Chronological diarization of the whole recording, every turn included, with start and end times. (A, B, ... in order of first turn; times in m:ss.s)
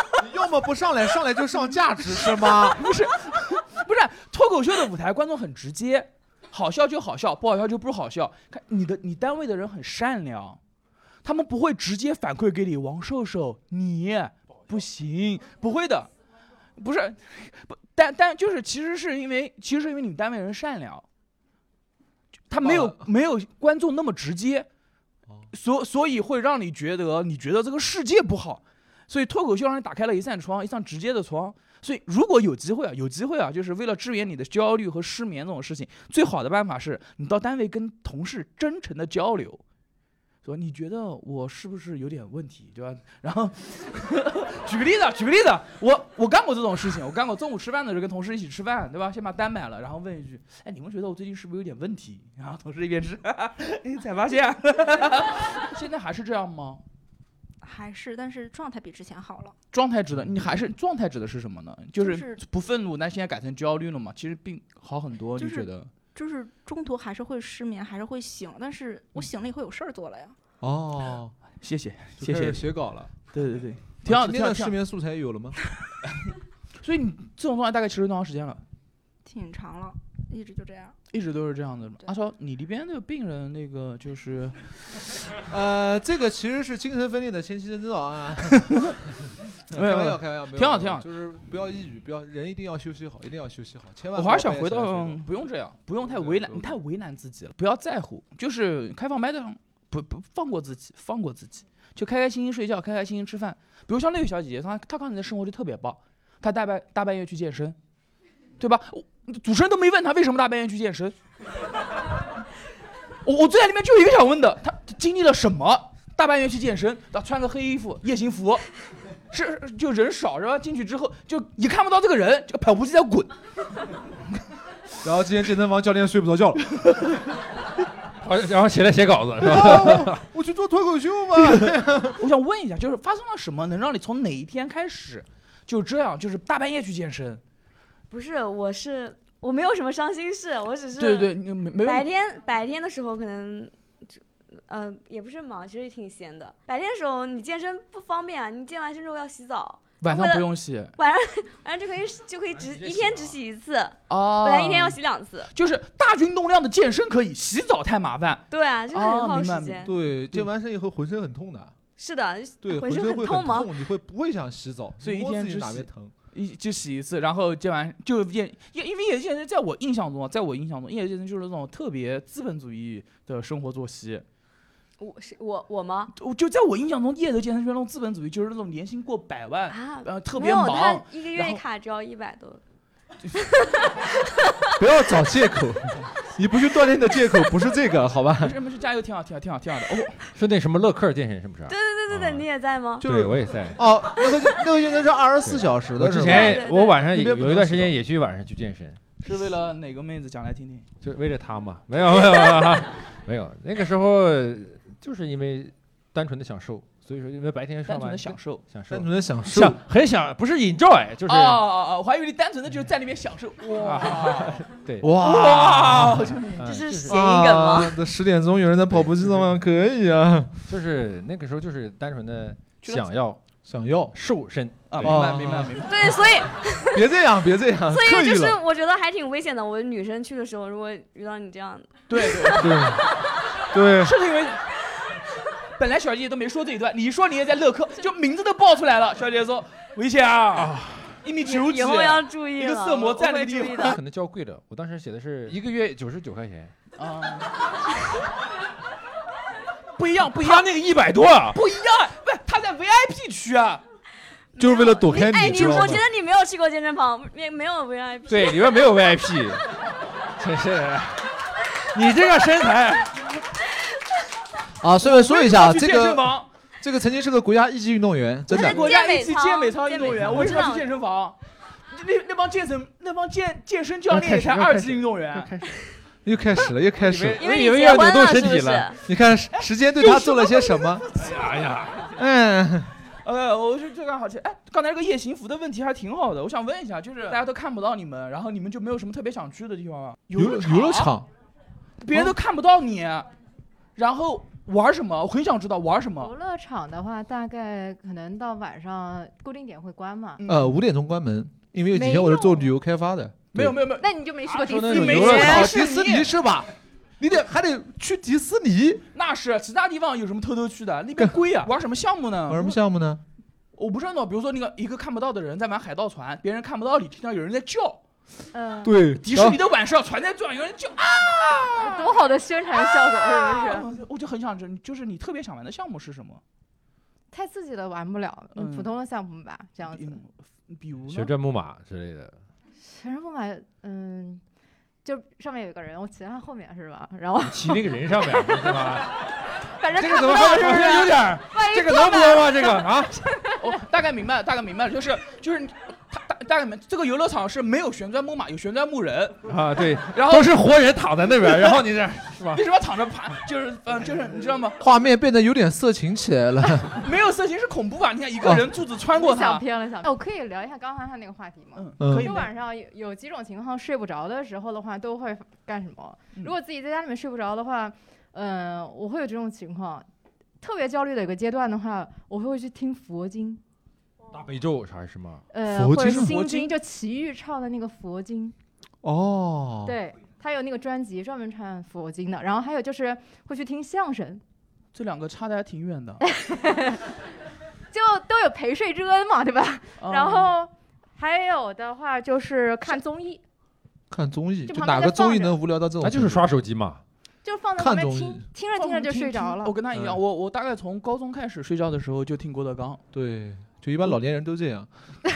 0:00.2-0:02.8 A
0:02.7-0:10.6 B
0:11.2-0:16.1 B
0:16.8-0:21.1 B
0:22.5-0:24.7 B
0:22.5-0:23.0 A
0:25.5-0:39.6 B
0:40.4-0:56.8 B
0:57.6-0:59.5 C
0:59.7-1:05.9 B
1:02.0-1:02.4 C
1:05.4-1:10.3 C
1:10.6-1:11.4 A
1:11.6-1:12.7 B
1:12.2-1:13.2 A
1:13.3-1:14.8 B
1:14.0-1:15.6 A
1:16.8-1:18.6 B
1:19.3-1:20.9 C
1:21.1-1:25.1 B
1:25.5-1:28.9 A
1:29.7-1:35.2 A
1:29.7-1:31.1 B
1:34.1-1:47.8 B
1:36.3-1:36.5 A
1:48.6-1:51.2 B
1:53.2-1:58.6 B
1:59.3-2:03.4 B
2:05.0-2:06.7 A
2:08.2-2:10.2 D
2:09.4-2:12.2 A
2:11.5-2:17.4 B
2:18.1-2:23.7 E
2:21.0-2:22.1 B
2:24.7-2:35.5 E
2:30.0-2:31.0 B
2:32.5-2:33.4 D
2:34.1-2:35.0 B
2:35.5-2:40.5 B
2:38.5-2:39.9 E
2:39.8-2:41.7 A
2:42.0-2:43.7 E
2:42.6-2:46.1 A
2:45.0-2:54.2 B
2:55.0-2:56.1 E
2:56.2-3:01.6 B
2:59.7-3:02.6 E
3:04.8-3:08.6 A
3:08.4-3:10.2 B
3:10.4-3:12.5 D
3:11.7-3:13.0 E
3:13.0-3:13.8 D
3:13.0-3:18.0 A
3:15.4-3:19.0 D
3:16.2-3:17.0 E
3:19.2-3:20.9 B
3:21.0-3:31.6 D
3:27.9-3:28.6 B
3:28.9-3:29.8 A
3:31.3-3:34.6 B
3:33.8-3:35.1 D
3:35.0-3:36.4 A
3:35.2-3:36.6 B
3:36.6-3:37.2 D
3:36.6-3:38.0 E
3:37.1-3:40.5 A
3:39.0-3:39.5 D
3:40.7-3:43.4 D
3:42.8-3:43.1 B
3:43.6-3:44.1 A
3:44.1-3:45.2 D
3:44.9-3:46.2 B
3:45.0-3:45.7 A
3:45.8-3:47.0 E
3:46.9-3:48.6 A
3:47.9-3:53.1 E
3:52.1-3:52.8 B
3:52.6-3:53.0 A
3:53.7-3:54.1 A
3:54.0-3:54.6 B
3:55.8-4:04.0 B
4:00.6-4:01.2 D
4:01.4-4:04.0 E
4:03.8-4:06.7 D
4:07.0-4:07.6 B
4:10.0-4:10.8 B
4:10.3-4:11.6 D
4:11.5-4:13.8 B
4:14.6-4:18.8 E
4:14.6-4:16.0 A
4:18.3-4:19.6 D
4:20.4-4:21.3 D
4:21.9-4:23.2 D
4:24.8-4:28.9 A
4:25.0-4:26.5 B
4:28.5-4:30.9 E
4:28.5-4:35.6 B
4:34.1-4:35.0 A
4:35.3-4:35.8 D
4:36.2-4:37.4 A
4:37.0-4:39.0 D
4:37.4-4:39.0 E
4:39.0-4:41.0 A
4:39.5-4:41.6 B
4:41.1-4:42.1 D
4:42.2-4:42.9 A
4:43.2-4:51.1 B
4:50.3-4:51.3 A
4:52.0-4:53.3 B
4:52.1-4:52.4 A
4:54.0-4:56.3 B
4:56.2-5:00.4 F
5:00.4-5:00.8 B
5:00.4-5:03.8 A
5:01.9-5:02.7 F
5:03.5-5:04.2 B
5:04.0-5:05.7 F
5:04.5-5:05.7 D
5:04.8-5:06.7 A
5:04.9-5:06.3 B
5:07.2-5:09.0 A
5:09.1-5:12.8 B
5:11.2-5:11.7 A
5:12.5-5:13.2 A
5:13.8-5:18.0 B
5:18.5-5:18.9 F
5:18.8-5:19.6 A
5:19.2-5:22.2 B
5:21.8-5:23.9 F
5:22.8-5:26.4 B
5:27.3-5:30.2 F
5:28.6-5:28.9 B
5:29.9-5:31.3 B
5:31.1-5:32.4 D
5:32.8-5:34.4 F
5:35.0-5:39.0 F
5:37.4-5:39.1 D
5:39.7-5:43.8 F
5:39.9-5:43.2 D
5:43.6-5:49.4 B
5:49.5-5:52.6 D
5:50.1-5:50.5 B
5:52.5-5:54.8 B
5:54.8-5:57.0 A
5:56.9-5:59.6 B
5:59.1-6:10.1 F
6:01.8-6:02.5 B
6:02.0-6:02.3 A
6:10.6-6:13.6 F
6:14.3-6:15.4 D
6:15.5-6:18.6 F
6:15.7-6:16.3 A
6:15.9-6:16.8 B
6:19.0-6:20.0 A
6:19.8-6:24.4 F
6:24.9-6:26.2 B
6:26.2-6:27.0 F
6:27.9-6:33.4 F
6:30.0-6:30.5 B
6:34.1-6:36.4 A
6:34.7-6:35.6 F
6:36.0-6:37.0 D
6:37.4-6:39.8 F
6:37.8-6:38.5 A
6:38.8-6:43.0 B
6:39.9-6:40.2 A
6:43.1-6:44.9 A